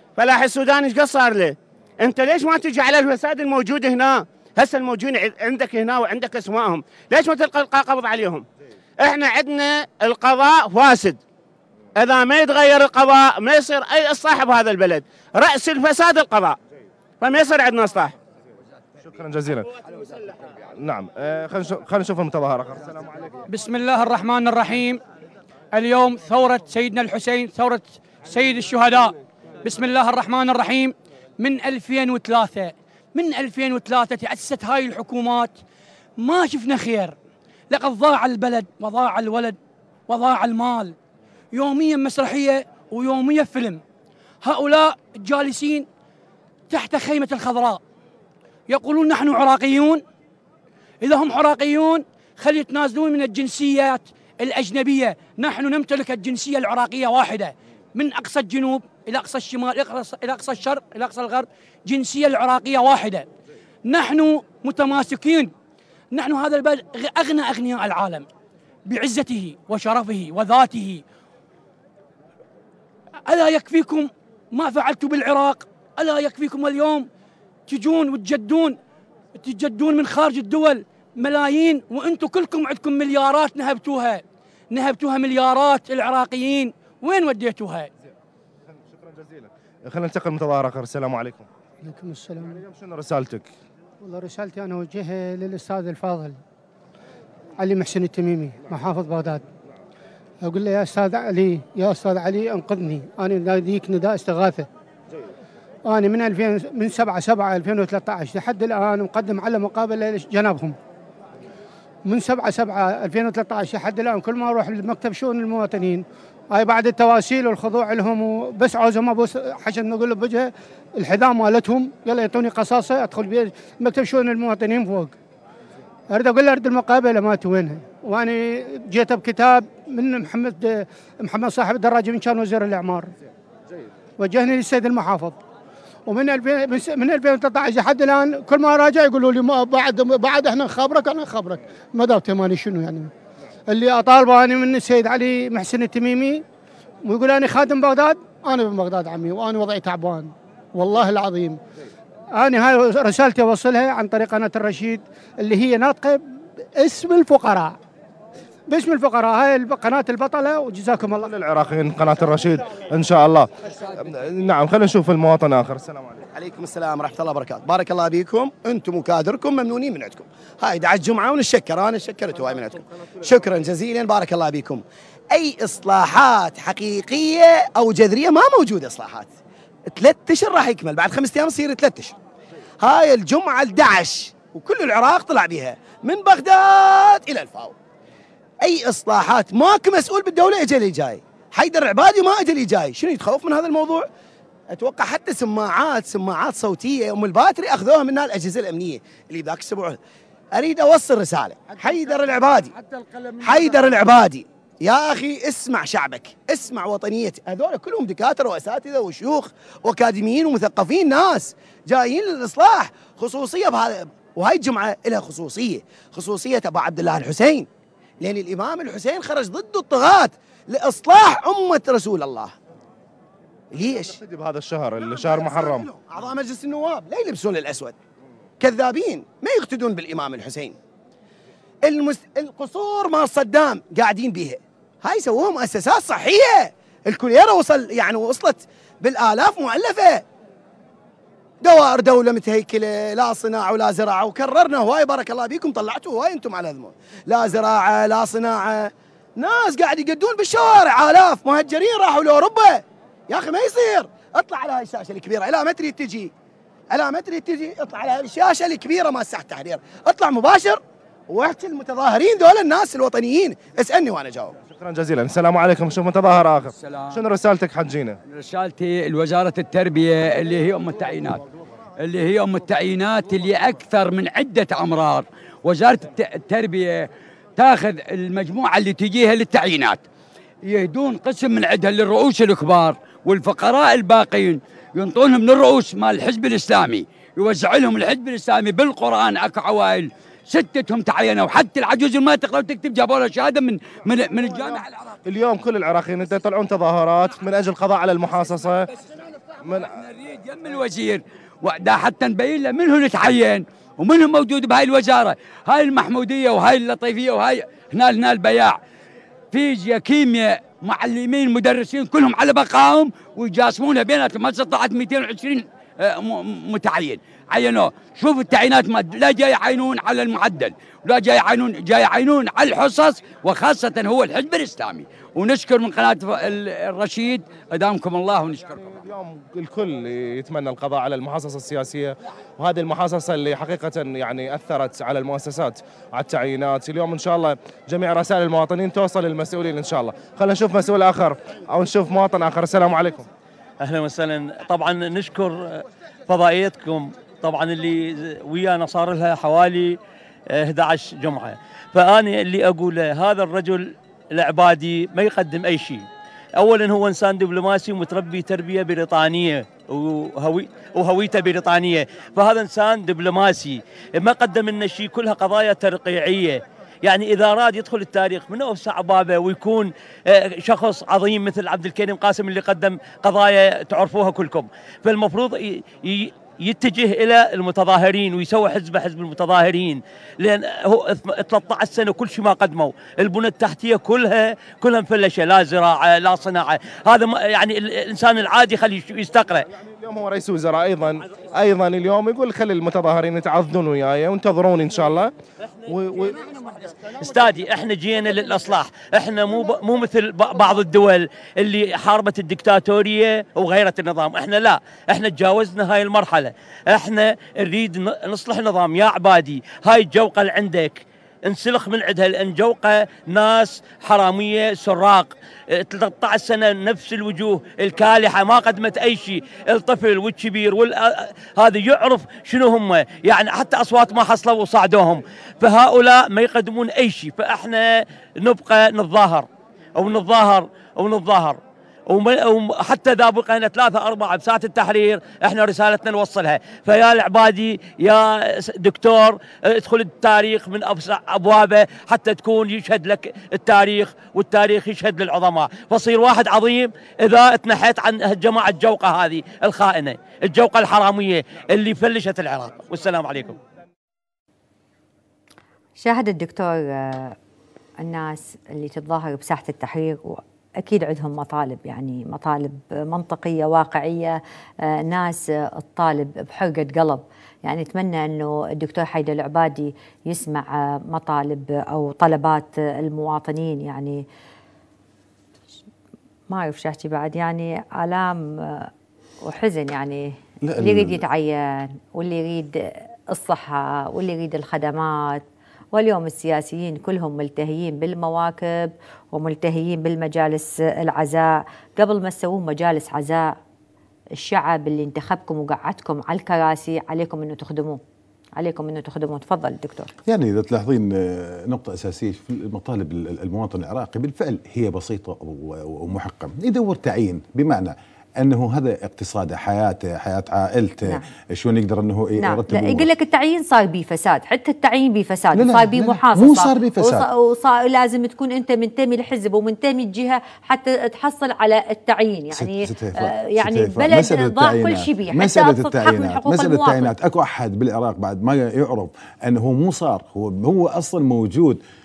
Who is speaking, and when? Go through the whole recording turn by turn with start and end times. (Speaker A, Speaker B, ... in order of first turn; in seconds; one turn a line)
Speaker A: 0.2-8.4
Speaker A: 9.0-11.2
Speaker A: 11.9-16.6
Speaker A: 17.2-18.1
Speaker B: 19.0-19.7
Speaker B: 20.7-23.4
Speaker C: 23.5-25.0
Speaker C: 25.7-35.5
Speaker C: 36.2-37.1
Speaker C: 37.7-39.6
Speaker C: 40.1-40.9
Speaker C: 41.5-43.8
Speaker C: 44.4-45.9
Speaker C: 46.7-47.8
Speaker C: 48.7-50.0
Speaker C: 51.0-63.3
Speaker C: 63.9-65.5
Speaker C: 66.1-68.3
Speaker C: 68.8-71.0
Speaker C: 73.2-77.1
Speaker C: 77.7-78.8
Speaker C: 79.4-87.9
Speaker B: 88.8-91.5
Speaker D: 91.8-92.6
Speaker B: 92.4-93.5
Speaker D: 94.0-96.4
Speaker D: 97.6-99.4
Speaker D: 100.4-104.7
Speaker D: 105.8-110.8
Speaker D: 112.0-125.1
Speaker D: 126.1-133.1
Speaker D: 134.2-135.4
Speaker D: 136.1-143.1
Speaker D: 143.7-146.4
Speaker D: 147.1-151.6
Speaker D: 152.3-157.8
Speaker D: 158.7-161.3
Speaker B: 161.1-166.3
Speaker E: 166.3-179.3
Speaker E: 179.9-182.2
Speaker E: 182.8-187.7
Speaker E: 188.6-194.1
Speaker E: 194.7-200.0
Speaker E: 200.6-202.7
Speaker E: 203.4-217.7
Speaker E: 218.2-222.6
Speaker E: 223.7-224.2
Speaker B: 224.1-225.9
Speaker E: 225.1-227.9
Speaker E: 228.6-230.8
Speaker E: 231.8-240.2
Speaker E: 241.6-256.3
Speaker E: 256.9-264.5
Speaker B: 264.7-268.1
Speaker F: 266.8-267.2
Speaker F: 268.3-271.4
Speaker F: 272.0-280.0
Speaker F: 280.6-295.1
Speaker B: 294.2-298.9
Speaker B: 299.6-299.9
Speaker F: 300.0-308.8
Speaker F: 309.5-329.1
Speaker B: 328.7-343.3
Speaker G: 343.8-350.0
Speaker G: 350.5-356.1
Speaker G: 356.6-389.7
Speaker B: 389.9-395.3
Speaker B: 395.9-396.9
Speaker G: 397.1-453.6
Speaker H: 456.0-457.4
Speaker H: 458.0-474.2
Speaker H: 476.5-478.9
Speaker H: 479.4-493.5
Speaker I: 480.6-481.2
Speaker H: 494.4-498.0
Speaker H: 498.6-500.1
Speaker I: 500.2-513.1
Speaker H: 512.4-527.1
Speaker I: 515.5-517.3
Speaker I: 522.5-531.8